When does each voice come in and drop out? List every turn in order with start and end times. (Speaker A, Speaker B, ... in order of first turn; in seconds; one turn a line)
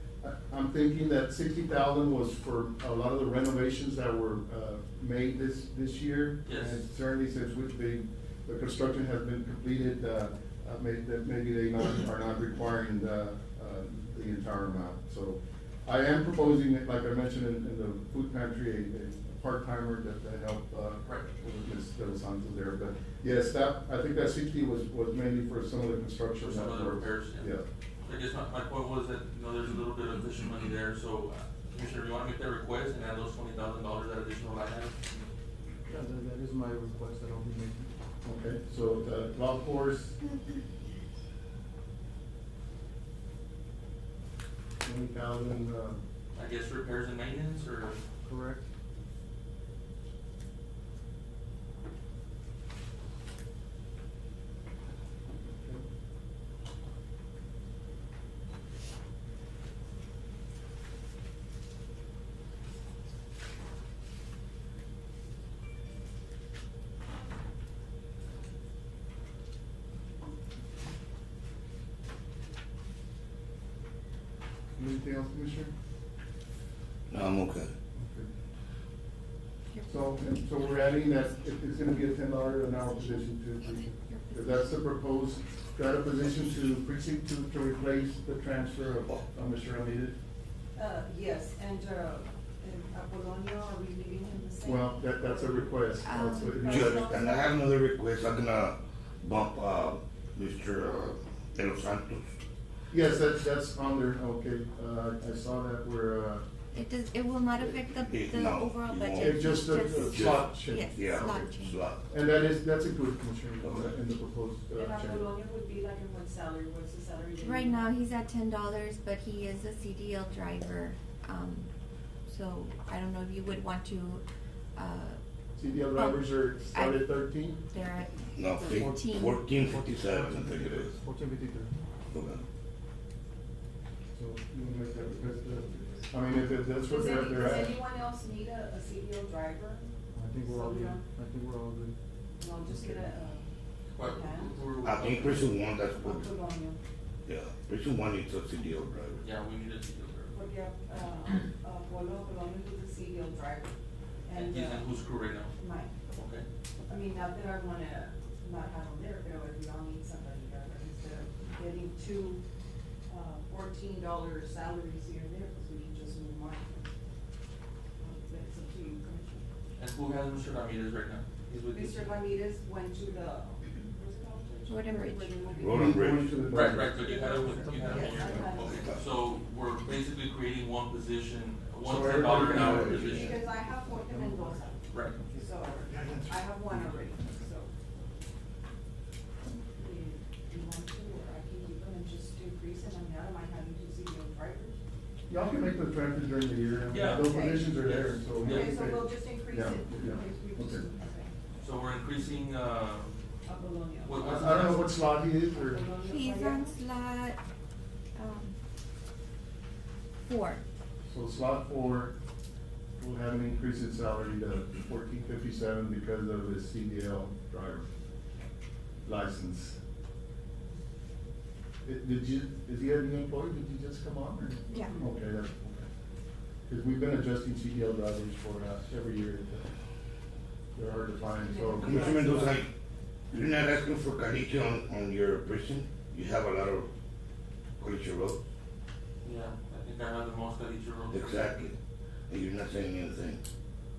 Speaker A: 0.2-27.6
Speaker B: 6.5-6.8
Speaker B: 26.4-27.5
Speaker B: 28.0-35.0
Speaker C: 35.8-37.9
Speaker A: 38.2-40.3
Speaker C: 38.7-39.0
Speaker A: 44.8-46.0
Speaker B: 46.3-48.0
Speaker C: 48.2-48.6
Speaker A: 55.4-55.8
Speaker A: 74.8-75.7
Speaker D: 77.1-77.7
Speaker A: 78.0-78.3
Speaker E: 79.7-80.2
Speaker A: 79.9-90.1
Speaker E: 82.6-84.8
Speaker F: 90.8-95.8
Speaker A: 94.6-97.2
Speaker E: 96.0-96.8
Speaker F: 96.4-97.5
Speaker D: 96.7-102.3
Speaker A: 102.9-106.5
Speaker E: 106.7-111.8
Speaker D: 108.0-112.0
Speaker A: 109.2-111.3
Speaker A: 112.1-115.3
Speaker D: 113.6-113.9
Speaker F: 114.7-117.9
Speaker E: 117.4-121.7
Speaker E: 122.3-124.2
Speaker E: 124.8-125.2
Speaker A: 125.6-127.6
Speaker E: 125.9-127.2
Speaker E: 127.7-129.3
Speaker D: 128.3-130.9
Speaker C: 128.6-131.7
Speaker D: 132.1-132.4
Speaker A: 134.1-137.8
Speaker F: 136.8-139.9
Speaker C: 140.1-141.9
Speaker F: 140.4-141.0
Speaker F: 142.4-143.5
Speaker C: 142.7-143.1
Speaker B: 143.9-145.5
Speaker F: 144.0-144.5
Speaker D: 144.8-146.3
Speaker F: 145.9-146.8
Speaker D: 147.2-149.2
Speaker B: 149.2-150.4
Speaker F: 150.3-154.9
Speaker B: 154.3-155.5
Speaker F: 155.6-155.9
Speaker B: 156.1-156.4
Speaker F: 156.9-162.4
Speaker F: 163.1-166.9
Speaker F: 168.0-169.4
Speaker B: 169.8-172.1
Speaker F: 171.7-175.9
Speaker E: 174.7-175.3
Speaker D: 175.6-176.4
Speaker A: 175.7-177.0
Speaker B: 176.5-183.4
Speaker F: 177.0-179.0
Speaker C: 177.2-178.5
Speaker A: 181.8-183.3
Speaker F: 182.9-187.7
Speaker C: 184.1-184.6
Speaker B: 184.9-185.2
Speaker A: 185.9-186.4
Speaker F: 189.7-194.8
Speaker A: 195.3-200.9
Speaker B: 196.9-198.8
Speaker F: 197.1-197.7
Speaker F: 198.4-201.3
Speaker B: 201.6-203.2
Speaker F: 203.4-204.4
Speaker B: 204.0-204.9
Speaker A: 204.2-205.8
Speaker F: 205.5-206.8
Speaker E: 206.0-207.4
Speaker E: 208.2-208.5
Speaker E: 210.2-210.6
Speaker A: 211.1-212.1
Speaker A: 213.0-217.8
Speaker A: 219.0-219.8
Speaker A: 221.8-225.9
Speaker E: 224.7-225.0
Speaker A: 226.7-229.7
Speaker A: 230.7-232.6
Speaker F: 231.4-232.4
Speaker D: 231.8-232.7
Speaker D: 233.3-236.9
Speaker D: 237.8-238.4
Speaker B: 239.2-241.5
Speaker D: 241.1-241.8
Speaker D: 242.3-243.4